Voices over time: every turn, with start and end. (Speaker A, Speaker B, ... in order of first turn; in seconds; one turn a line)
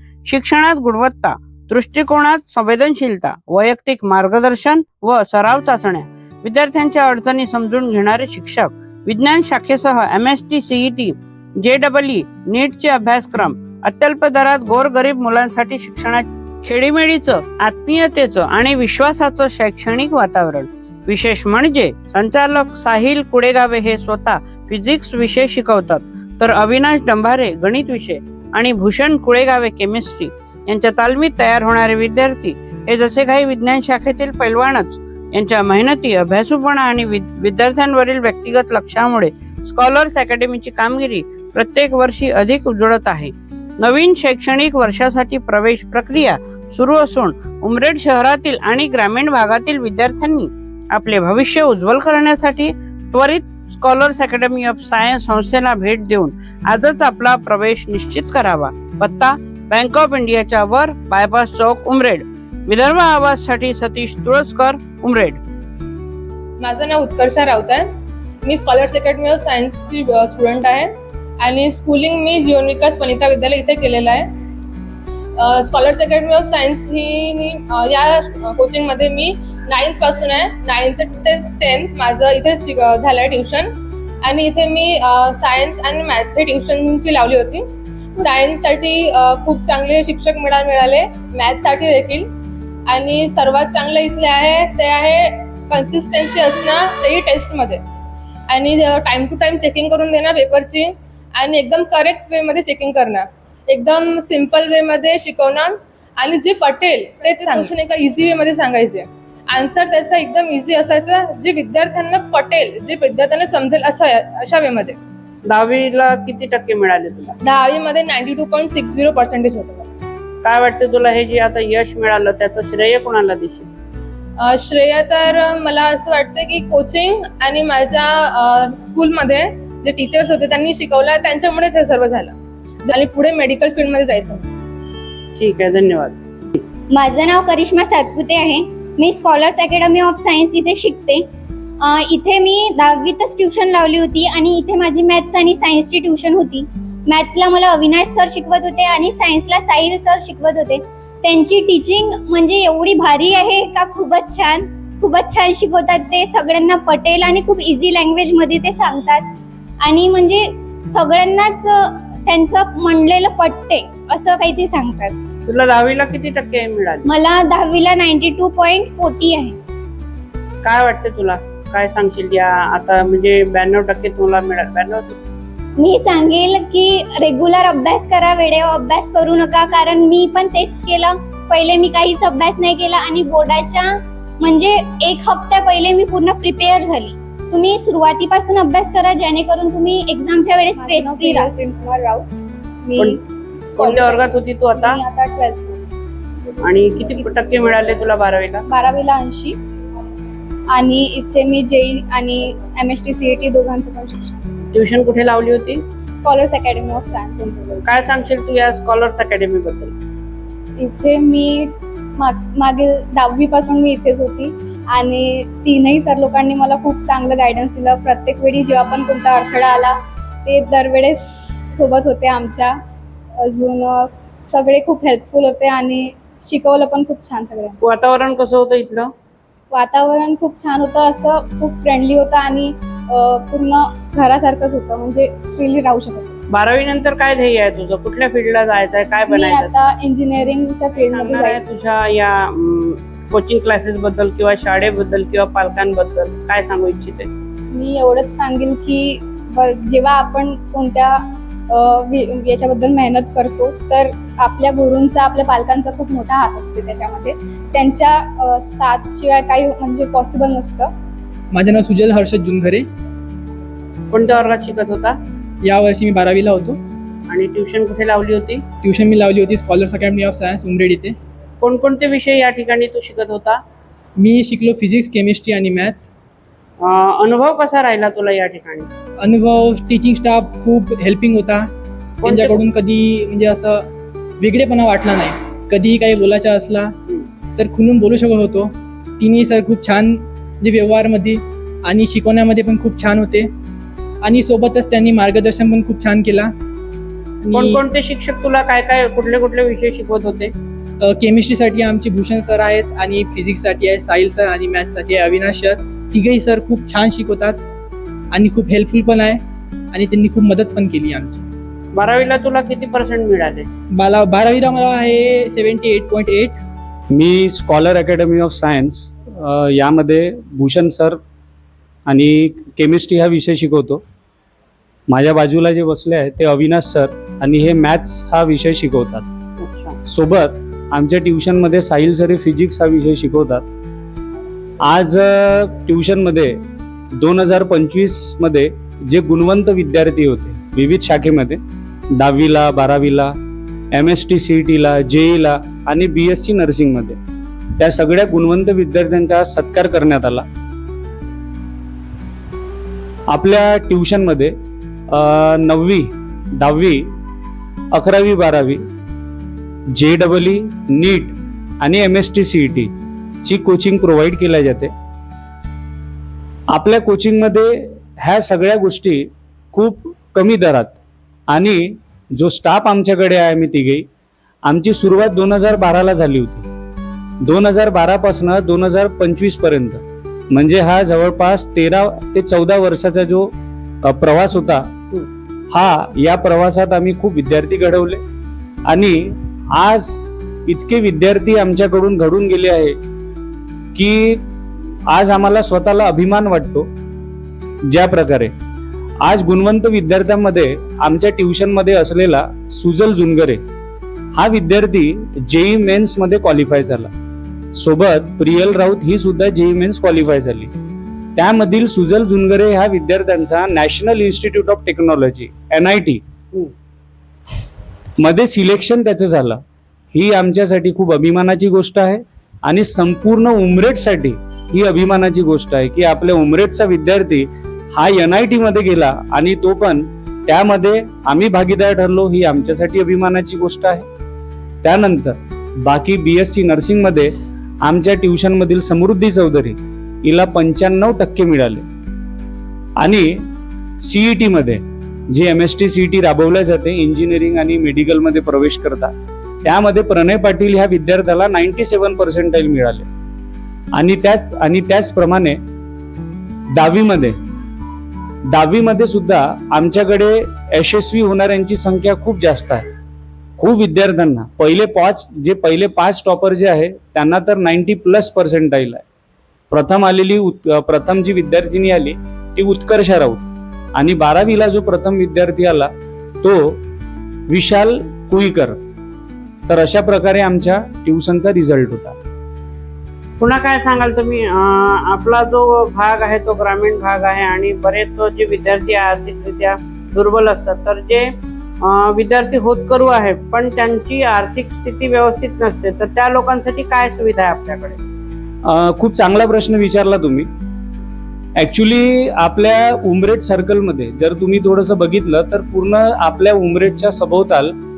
Speaker A: 0.2-65.4
Speaker B: 66.6-67.8
Speaker B: 68.4-70.9
Speaker B: 71.4-74.3
Speaker B: 75.4-83.7
Speaker B: 84.2-87.6
Speaker B: 88.2-92.3
Speaker B: 92.9-97.8
Speaker B: 98.5-114.9
Speaker A: 115.5-117.3
Speaker B: 117.4-119.9
Speaker A: 120.4-123.7
Speaker B: 124.4-132.3
Speaker B: 132.8-134.5
Speaker A: 135.4-136.2
Speaker C: 136.9-141.3
Speaker C: 141.8-165.2
Speaker A: 165.4-167.1
Speaker C: 167.1-169.6
Speaker A: 170.6-175.1
Speaker C: 175.8-191.5
Speaker D: 190.8-195.8
Speaker A: 193.8-195.0
Speaker A: 196.6-198.6
Speaker D: 198.7-199.6
Speaker D: 200.7-204.4
Speaker A: 204.7-205.8
Speaker D: 206.1-207.8
Speaker A: 207.8-209.9
Speaker D: 210.8-222.8
Speaker D: 223.4-227.8
Speaker A: 227.8-229.1
Speaker D: 229.7-236.4
Speaker A: 236.5-239.7
Speaker D: 239.3-241.6
Speaker A: 241.1-247.3
Speaker D: 247.7-260.9
Speaker E: 261.5-262.9
Speaker A: 264.1-265.1
Speaker E: 265.6-266.8
Speaker A: 267.3-268.6
Speaker E: 268.8-271.1
Speaker A: 271.6-273.6
Speaker E: 274.2-276.0
Speaker A: 276.8-278.9
Speaker E: 279.2-281.7
Speaker A: 282.2-282.6
Speaker E: 282.2-283.9
Speaker E: 284.4-286.9
Speaker E: 287.6-293.5
Speaker E: 294.2-296.5
Speaker E: 297.4-297.8
Speaker A: 297.5-300.5
Speaker E: 301.0-307.6
Speaker E: 308.3-309.4
Speaker E: 309.9-311.4
Speaker A: 311.9-313.6
Speaker E: 313.9-316.6
Speaker F: 317.1-321.2
Speaker F: 322.1-324.0
Speaker F: 325.1-329.2
Speaker A: 329.6-329.9
Speaker F: 330.0-333.6
Speaker F: 334.8-336.6
Speaker F: 337.2-341.6
Speaker F: 342.1-343.3
Speaker F: 343.9-347.2
Speaker F: 347.8-350.4
Speaker F: 353.3-354.5
Speaker F: 355.1-357.0
Speaker F: 357.9-358.8
Speaker F: 359.9-362.9
Speaker F: 363.4-364.9
Speaker F: 366.7-371.0
Speaker F: 371.5-374.0
Speaker F: 374.6-376.7
Speaker F: 377.4-383.5
Speaker F: 384.0-384.9
Speaker F: 385.7-388.2
Speaker F: 388.9-389.2
Speaker F: 389.7-392.9
Speaker F: 393.9-394.4
Speaker F: 395.1-396.9
Speaker F: 397.9-398.5
Speaker F: 399.2-403.6
Speaker F: 404.3-407.1
Speaker F: 407.7-410.7
Speaker F: 411.4-416.2
Speaker F: 418.2-419.6
Speaker F: 420.1-434.0
Speaker F: 434.8-441.8
Speaker F: 443.0-443.4
Speaker F: 444.0-449.1
Speaker F: 449.6-453.1
Speaker F: 453.9-455.6
Speaker F: 456.7-457.4
Speaker F: 458.5-462.8
Speaker F: 463.6-469.0
Speaker F: 469.7-475.9
Speaker F: 476.4-476.8
Speaker F: 477.5-478.8
Speaker F: 479.7-482.2
Speaker A: 483.4-491.3
Speaker A: 491.8-498.0
Speaker F: 498.6-500.5
Speaker F: 501.6-507.7